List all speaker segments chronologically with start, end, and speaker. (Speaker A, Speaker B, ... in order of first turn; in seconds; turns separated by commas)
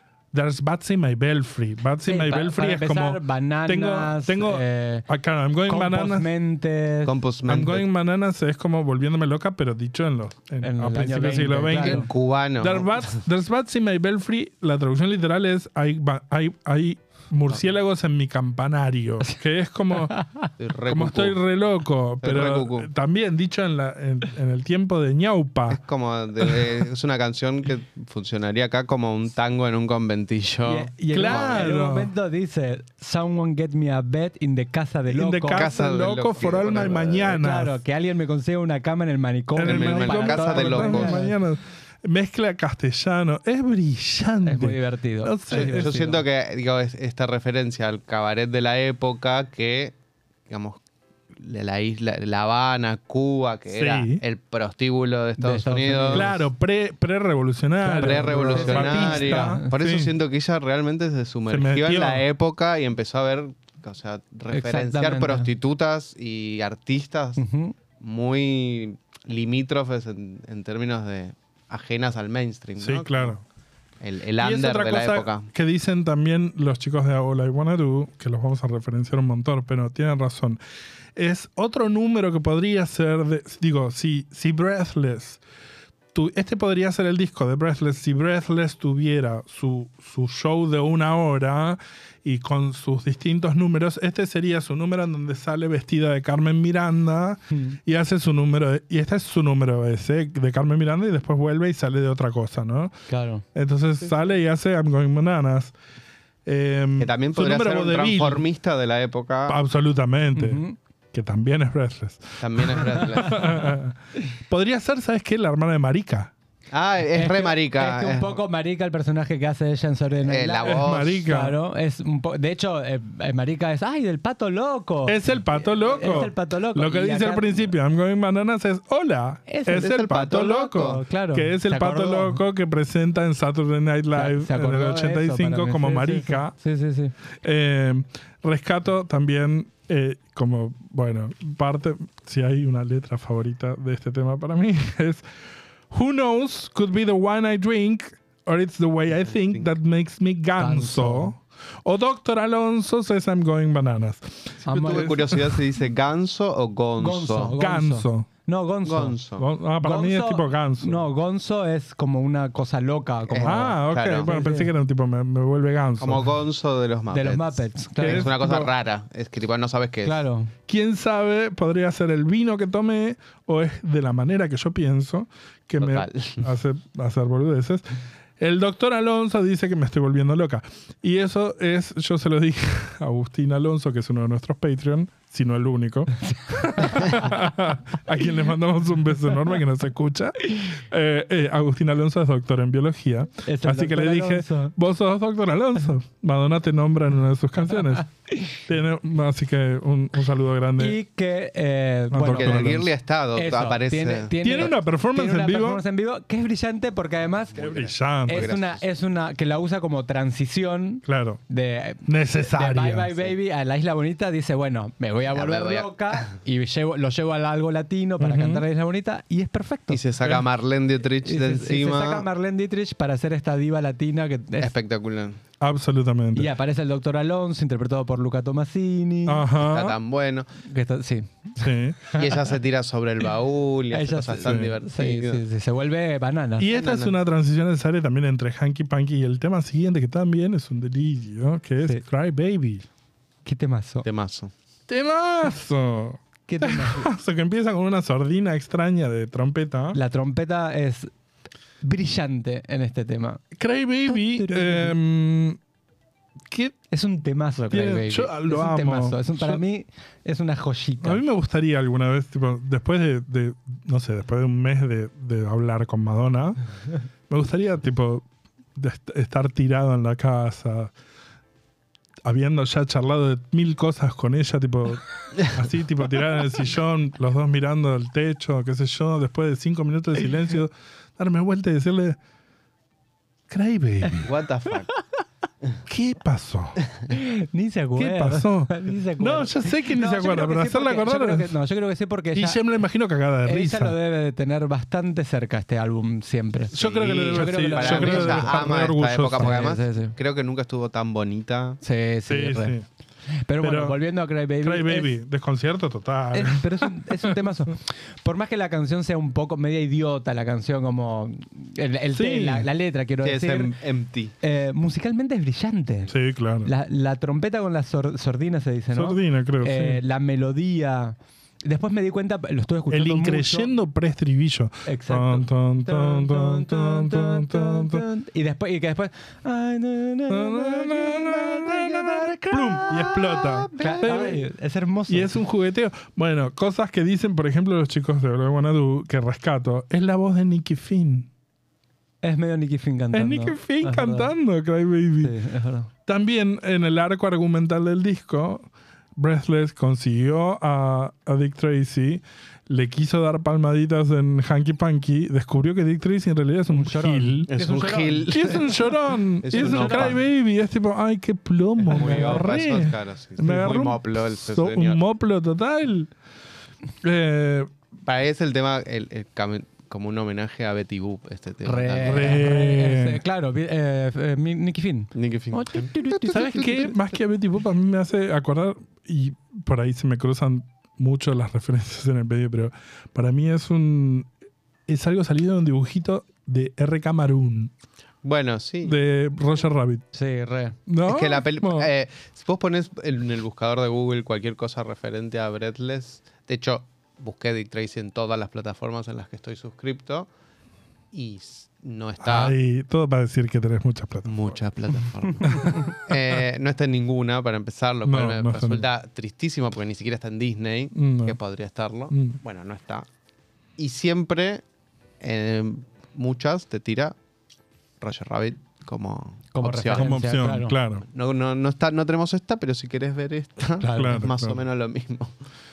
Speaker A: 0.3-6.3, Speaker B: 2.0-5.0, Speaker B: 5.7-7.1, Speaker C: 7.0-7.8, Speaker A: 7.5-20.1, Speaker B: 10.6-12.1, Speaker C: 11.8-13.2, Speaker B: 20.1-20.5, Speaker C: 20.6-21.4, Speaker A: 20.9-25.8, Speaker C: 22.2-22.9, Speaker C: 25.7-31.6, Speaker B: 30.6-35.7, Speaker A: 31.1-32.1, Speaker A: 35.1-37.8, Speaker C: 35.5-37.4, Speaker B: 37.3-41.3, Speaker A: 39.5-46.0, Speaker C: 39.6-41.2, Speaker B: 44.4-46.2, Speaker C: 45.5-49.9, Speaker C: 50.5-50.8, Speaker C: 51.4-56.3, Speaker A: 53.7-54.2, Speaker B: 55.4-56.3, Speaker A: 56.1-60.1, Speaker B: 57.8-59.7, Speaker C: 58.0-67.4, Speaker A: 61.5-62.2, Speaker B: 64.5-65.5, Speaker B: 67.4-67.7, Speaker C: 68.0-73.4, Speaker A: 72.8-73.4, Speaker C: 74.0-75.5, Speaker A: 74.4-80.6, Speaker A: 81.2-85.4, Speaker A: 86.1-102.9, Speaker B: 97.5-97.8, Speaker B: 103.1-103.4, Speaker A: 103.5-105.7, Speaker A: 106.4-108.4, Speaker C: 107.0-109.6, Speaker A: 109.5-110.6, Speaker B: 110.3-110.8, Speaker A: 111.1-116.3, Speaker C: 112.4-113.7, Speaker C: 116.7-118.4, Speaker B: 117.1-127.7, Speaker C: 120.2-121.2, Speaker A: 120.6-121.5, Speaker A: 125.0-136.5, Speaker B: 129.5-129.9, Speaker C: 129.7-131.0, Speaker B: 130.8-132.4, Speaker B: 134.1-137.1, Speaker A: 137.4-145.2, Speaker A: 145.9-155.6, Speaker C: 149.3-149.7, Speaker B: 150.6-151.3, Speaker B: 154.6-155.1, Speaker C: 154.7-157.5, Speaker B: 157.0-159.2, Speaker A: 157.6-158.3, Speaker C: 158.8-159.4, Speaker A: 159.4-161.0, Speaker B: 159.8-164.7, Speaker C: 163.3-164.3, Speaker A: 163.4-166.2, Speaker C: 166.0-170.2, Speaker B: 167.1-168.3, Speaker A: 168.0-168.7, Speaker B: 170.0-170.5, Speaker A: 170.7-177.8, Speaker C: 175.8-176.4, Speaker A: 178.4-201.0, Speaker B: 186.8-187.2, Speaker B: 193.4-194.7, Speaker B: 200.8-202.8, Speaker A: 202.1-202.9, Speaker C: 202.3-204.3, Speaker B: 203.3-207.6, Speaker A: 204.4-205.8, Speaker C: 207.5-208.8, Speaker A: 207.6-208.5, Speaker B: 208.2-220.0, Speaker A: 211.0-211.4, Speaker A: 212.0-213.1, Speaker C: 215.3-216.3, Speaker A: 218.2-218.6, Speaker C: 219.9-222.2, Speaker B: 221.2-224.7, Speaker C: 224.6-225.4, Speaker A: 225.6-226.5, Speaker B: 226.3-229.4, Speaker A: 229.3-229.9, Speaker C: 229.6-230.5, Speaker B: 230.6-232.2, Speaker A: 231.6-232.0, Speaker C: 232.1-235.4, Speaker B: 233.9-236.7, Speaker A: 234.4-234.7, Speaker A: 236.6-242.8, Speaker C: 236.7-237.1, Speaker B: 243.4-244.1, Speaker C: 244.0-244.5, Speaker A: 244.9-250.0, Speaker B: 246.5-247.1, Speaker B: 249.9-251.1, Speaker B: 251.8-253.4, Speaker A: 253.5-255.6, Speaker B: 254.1-254.9, Speaker A: 256.5-256.8, Speaker B: 256.9-261.2, Speaker A: 257.7-259.6, Speaker A: 261.0-266.6, Speaker A: 267.3-270.9, Speaker A: 272.2-282.2, Speaker A: 283.5-284.3, Speaker C: 284.2-284.9, Speaker A: 285.9-286.8, Speaker B: 287.1-292.6, Speaker A: 288.0-291.5, Speaker A: 292.3-293.9, Speaker B: 293.4-296.7, Speaker A: 296.7-299.7, Speaker C: 296.7-301.8, Speaker B: 297.3-298.7, Speaker B: 299.3-300.1, Speaker B: 301.8-302.8, Speaker A: 302.3-302.9, Speaker B: 303.4-305.1, Speaker A: 303.6-304.0, Speaker A: 304.6-307.3, Speaker B: 306.3-313.7, Speaker A: 312.1-312.7, Speaker C: 313.2-314.3, Speaker B: 314.4-323.7, Speaker A: 316.1-316.7, Speaker A: 318.9-320.0, Speaker A: 322.9-328.0, Speaker B: 324.9-333.0, Speaker A: 330.3-334.4, Speaker C: 332.9-334.2, Speaker B: 333.8-335.3, Speaker A: 335.1-341.3, Speaker B: 342.2-344.3, Speaker A: 343.1-345.4, Speaker B: 345.2-345.9, Speaker A: 346.1-357.5, Speaker B: 356.7-358.4, Speaker C: 357.5-358.9, Speaker A: 358.3-366.1, Speaker C: 359.4-360.2, Speaker B: 359.5-360.1, Speaker C: 361.8-365.0, Speaker B: 361.9-362.5, Speaker A: 367.0-367.7, Speaker C: 368.1-372.4, Speaker B: 371.6-376.9, Speaker A: 372.0-373.2, Speaker C: 375.1-376.9, Speaker A: 376.2-384.3, Speaker A: 384.9-387.7, Speaker C: 388.2-389.0, Speaker A: 388.8-390.0, Speaker B: 390.1-390.8, Speaker A: 390.9-391.9, Speaker C: 391.0-400.3, Speaker C: 401.1-402.5, Speaker A: 402.2-404.6, Speaker C: 404.2-413.1, Speaker A: 405.4-405.9, Speaker A: 408.0-408.9, Speaker A: 410.9-411.4, Speaker A: 412.1-412.4, Speaker C: 413.8-414.6, Speaker C: 415.2-417.1, Speaker C: 418.0-420.2, Speaker B: 419.5-420.8, Speaker A: 419.9-421.0, Speaker C: 421.1-425.3, Speaker B: 423.8-424.2, Speaker A: 423.9-424.6